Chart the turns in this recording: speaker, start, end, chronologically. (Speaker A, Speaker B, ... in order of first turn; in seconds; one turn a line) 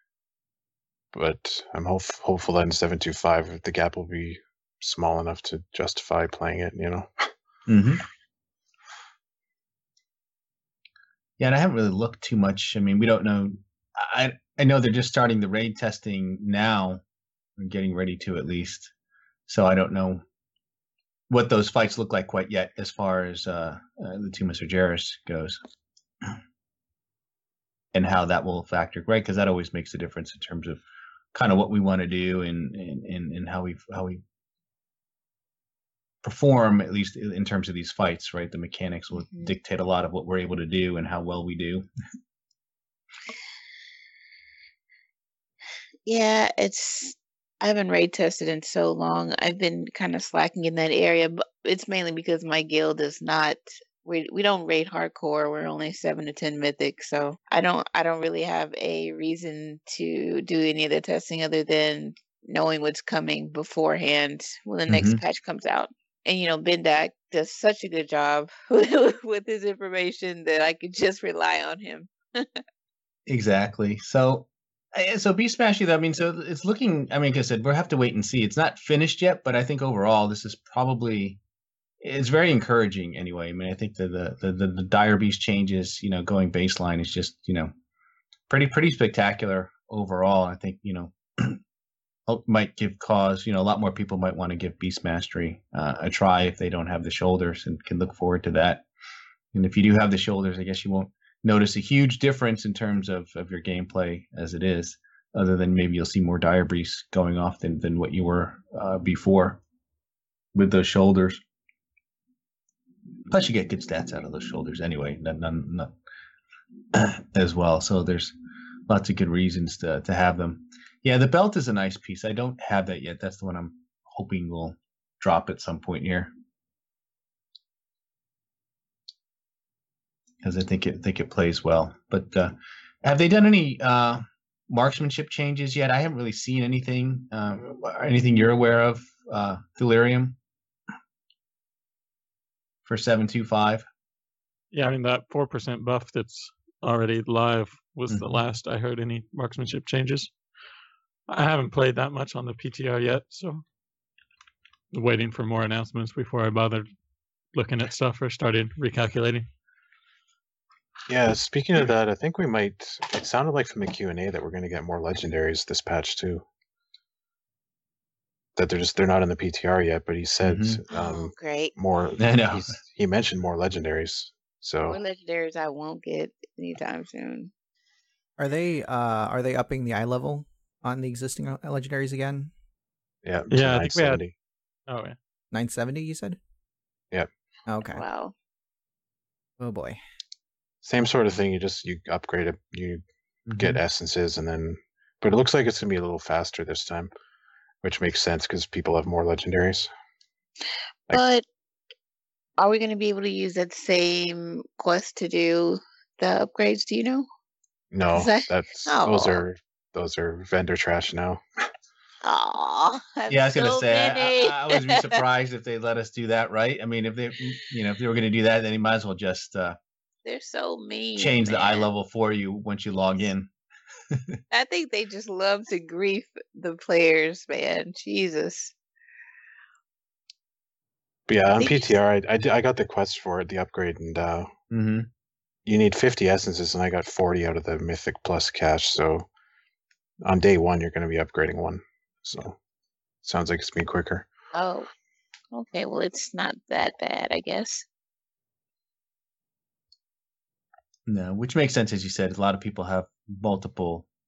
Speaker A: 1.1-7.3
Speaker B: 7.7-8.0
Speaker B: 11.4-17.0
Speaker B: 17.6-18.9
Speaker B: 19.5-20.2
Speaker B: 21.3-25.6
Speaker B: 27.9-30.8
Speaker B: 31.3-34.2
Speaker B: 36.2-41.9
Speaker C: 39.1-39.5
Speaker C: 46.0-72.6
Speaker B: 64.9-65.2
Speaker B: 73.3-81.4
Speaker B: 82.0-87.7
Speaker B: 88.5-91.6
Speaker B: 92.3-98.8
Speaker B: 99.5-109.6
Speaker B: 110.5-111.4
Speaker B: 113.3-115.9
Speaker B: 116.9-118.3
Speaker B: 118.9-126.3
Speaker B: 130.4-140.4
Speaker B: 142.8-143.8
Speaker D: 144.7-150.3
Speaker D: 151.3-153.6
Speaker D: 154.9-156.8
Speaker D: 157.5-159.4
Speaker A: 161.1-166.4
Speaker A: 168.6-175.0
Speaker B: 170.4-170.8
Speaker C: 170.9-171.7
Speaker B: 172.2-172.8
Speaker C: 174.9-177.5
Speaker E: 178.4-182.5
Speaker A: 183.2-184.3
Speaker D: 183.5-184.2
Speaker D: 184.9-185.2
Speaker E: 185.5-186.4
Speaker E: 187.7-188.0
Speaker C: 187.9-188.3
Speaker E: 189.6-190.0
Speaker A: 190.8-193.0
Speaker B: 193.5-193.8
Speaker A: 193.6-197.1
Speaker A: 197.8-199.9
Speaker C: 201.1-201.4
Speaker C: 202.6-207.3
Speaker A: 207.9-211.4
Speaker C: 208.1-209.4
Speaker C: 212.2-215.2
Speaker B: 213.3-219.8
Speaker C: 220.2-221.8
Speaker B: 221.2-223.5
Speaker B: 224.1-224.4
Speaker C: 224.5-228.7
Speaker A: 231.3-234.5
Speaker C: 231.6-231.9
Speaker B: 234.7-235.1
Speaker A: 235.7-239.3
Speaker A: 240.2-242.6
Speaker A: 243.2-244.3
Speaker C: 244.5-244.9
Speaker C: 245.5-247.8
Speaker B: 251.1-254.1